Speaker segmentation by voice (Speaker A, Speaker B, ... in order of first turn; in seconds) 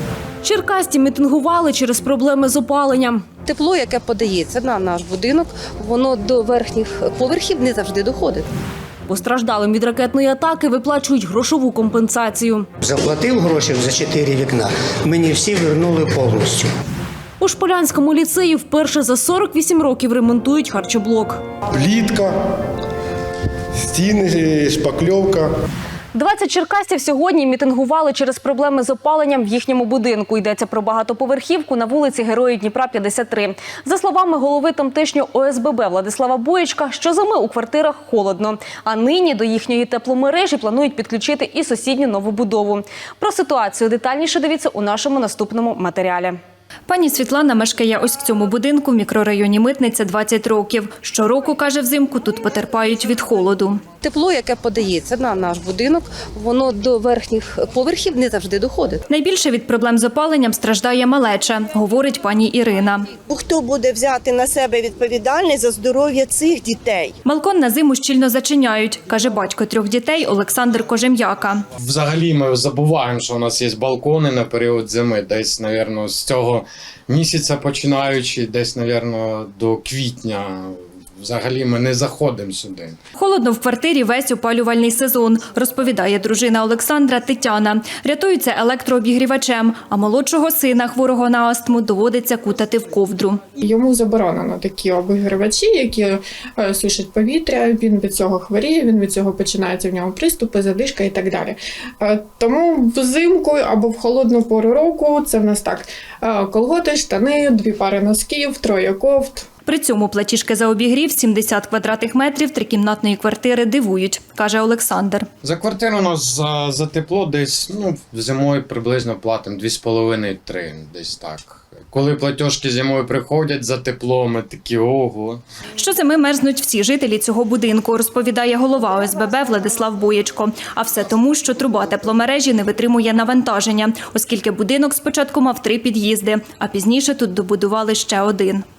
Speaker A: 0.4-3.3, 9.1-12.7, 17.4-21.4, 26.1-46.4
Speaker B: 3.5-8.4, 54.0-59.0
Speaker C: 12.8-16.7
Speaker D: 21.7-22.3, 23.9-25.5
Speaker E: 46.9-53.8, 59.1-63.1, 67.2-71.6, 83.2-93.4, 109.7-115.3, 125.8-138.6
Speaker F: 63.3-67.2
Speaker G: 71.8-83.0, 115.5-125.4
Speaker H: 93.6-109.4